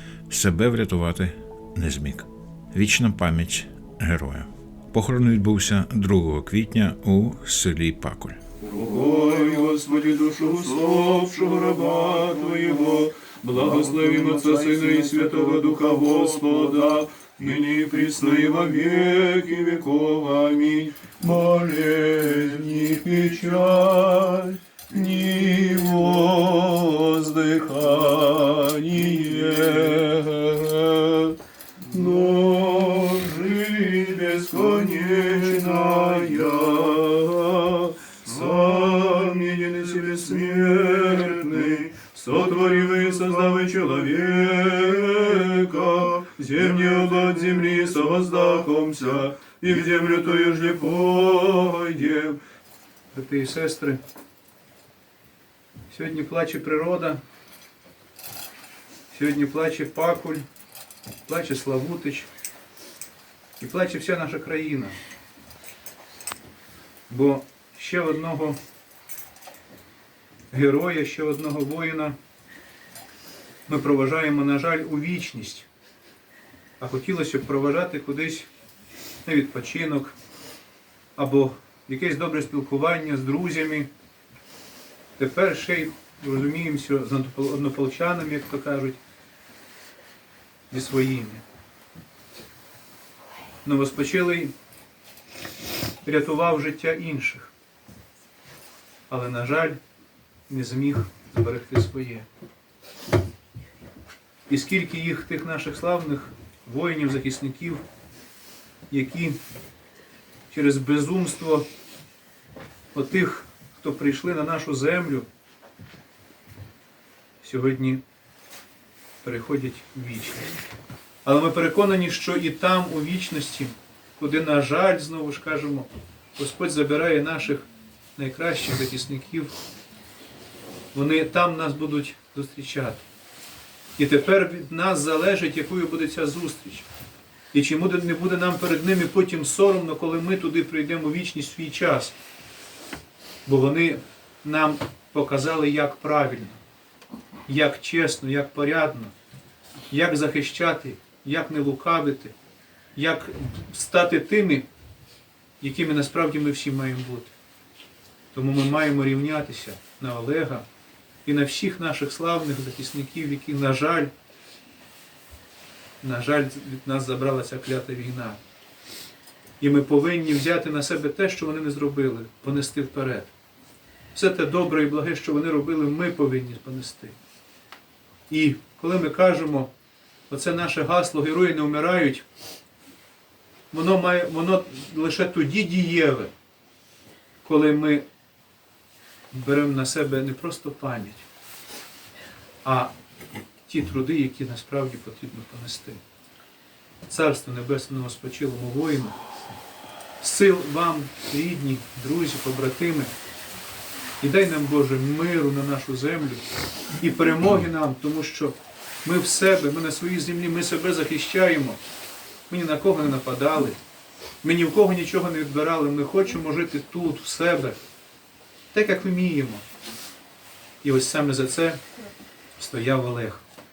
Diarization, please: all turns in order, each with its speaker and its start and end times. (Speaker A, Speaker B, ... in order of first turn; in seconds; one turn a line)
Speaker A: 0.3-8.4
Speaker B: 8.7-31.4
Speaker C: 13.6-16.8
Speaker B: 31.9-44.3
Speaker C: 42.0-43.1
Speaker C: 44.3-45.6
Speaker B: 45.0-45.2
Speaker B: 45.9-46.2
Speaker C: 46.2-47.5
Speaker B: 47.3-48.0
Speaker C: 48.0-48.5
Speaker B: 48.7-52.4
Speaker C: 53.1-54.0
Speaker C: 55.9-57.2
Speaker C: 59.1-60.5
Speaker C: 61.2-62.3
Speaker C: 63.6-65.0
Speaker C: 67.1-68.6
Speaker C: 70.5-72.2
Speaker C: 73.7-75.7
Speaker C: 76.8-78.5
Speaker C: 79.2-80.1
Speaker C: 81.2-83.9
Speaker C: 85.2-89.0
Speaker C: 90.7-91.4
Speaker C: 93.6-94.5
Speaker C: 96.0-97.5
Speaker C: 99.1-99.8
Speaker C: 100.5-102.2
Speaker C: 104.5-107.8
Speaker C: 108.9-109.4
Speaker C: 110.5-111.7
Speaker C: 112.9-115.3
Speaker C: 117.4-118.0
Speaker C: 119.2-120.5
Speaker C: 121.2-127.6
Speaker C: 128.2-129.6
Speaker C: 130.9-133.0
Speaker C: 134.0-136.9
Speaker C: 137.5-142.2
Speaker C: 143.4-146.6
Speaker C: 147.5-149.1
Speaker C: 149.9-152.3
Speaker C: 152.9-154.7
Speaker C: 155.6-157.3
Speaker C: 158.3-160.7
Speaker C: 161.2-164.1
Speaker C: 166.0-168.4
Speaker C: 169.6-173.3
Speaker C: 174.1-177.2
Speaker C: 178.3-179.7
Speaker C: 180.3-182.2
Speaker C: 183.7-186.3
Speaker C: 187.4-188.1
Speaker C: 189.3-191.2
Speaker C: 192.6-192.9
Speaker C: 193.6-196.0
Speaker C: 197.1-199.2
Speaker C: 200.2-203.1
Speaker C: 204.2-206.4
Speaker C: 207.0-211.8
Speaker C: 212.5-213.8
Speaker C: 214.4-217.8
Speaker C: 218.7-219.6
Speaker C: 220.8-221.8
Speaker C: 222.6-223.4